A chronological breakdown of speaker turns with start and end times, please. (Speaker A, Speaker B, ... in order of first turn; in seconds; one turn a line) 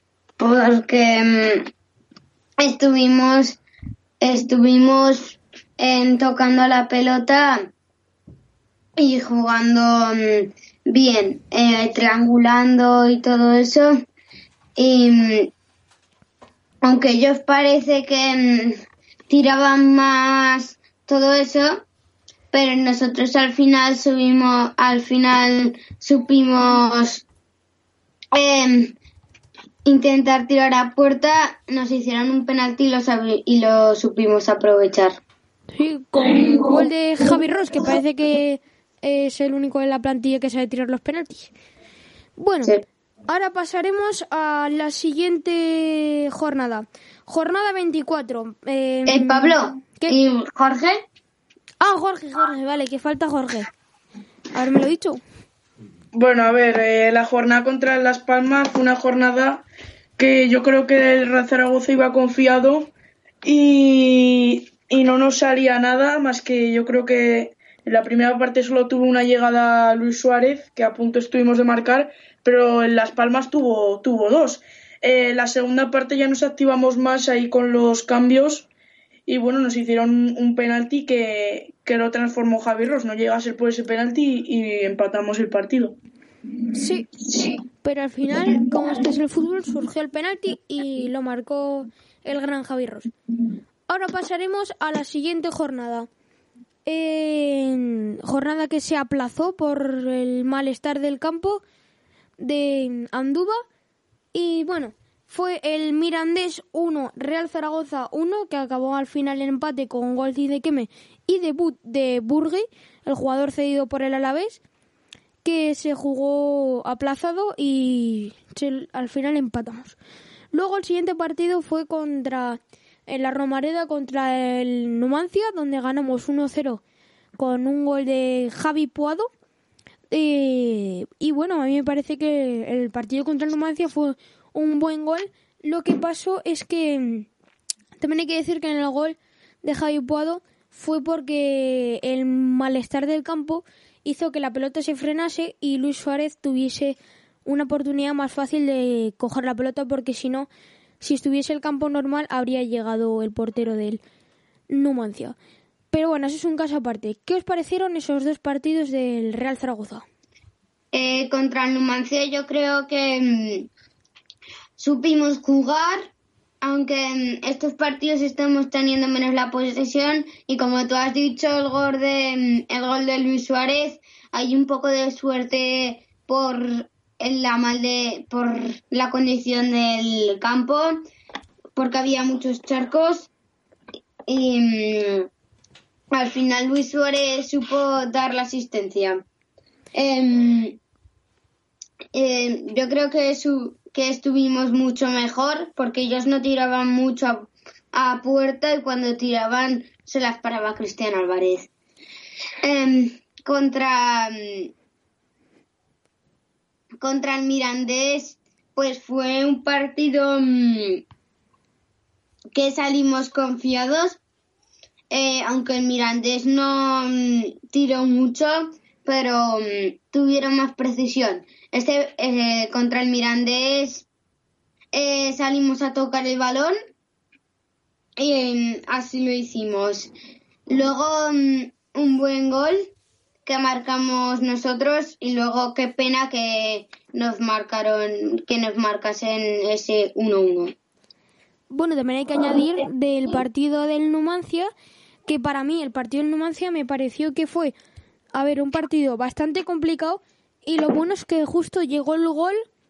Speaker A: 0.4-1.7
Speaker A: 2.6-3.6
Speaker A: 4.2-7.7
Speaker A: 9.0-14.0
Speaker A: 14.8-15.5
Speaker A: 16.8-21.8
Speaker A: 22.5-27.2
Speaker A: 28.3-28.9
Speaker A: 29.9-35.2
Speaker B: 35.7-41.5
Speaker A: 36.4-36.8
Speaker B: 42.4-42.7
Speaker B: 43.3-50.2
Speaker A: 49.1-51.0
Speaker B: 51.8-53.7
Speaker B: 54.5-55.2
Speaker C: 56.1-59.6
Speaker C: 60.2-62.9
Speaker C: 63.4-78.7
Speaker C: 79.3-86.0
Speaker B: 86.7-87.1
Speaker B: 87.8-93.1
Speaker B: 93.9-96.1
Speaker B: 96.9-101.6
Speaker B: 102.4-103.6
Speaker B: 104.3-114.6
Speaker B: 115.4-120.0
Speaker B: 120.5-126.8
Speaker B: 127.4-129.3
Speaker B: 130.1-137.3
Speaker B: 138.0-150.5
Speaker B: 151.0-154.0
Speaker B: 154.7-155.4
Speaker B: 155.9-160.1
Speaker A: 160.9-163.7
Speaker A: 164.8-166.1
Speaker A: 166.6-181.0
Speaker A: 181.8-183.3
Speaker A: 184.3-185.3
Speaker A: 186.1-189.2
Speaker A: 189.9-190.8
Speaker A: 192.1-201.7
Speaker A: 202.6-204.7
Speaker A: 207.0-211.0
Speaker A: 212.5-214.2
Speaker A: 215.1-224.1
Speaker A: 224.9-226.7
Speaker A: 228.2-230.1
Speaker A: 230.7-232.9
Speaker A: 233.5-240.8
Speaker B: 241.7-244.7
Speaker B: 245.3-247.7
Speaker B: 248.3-252.6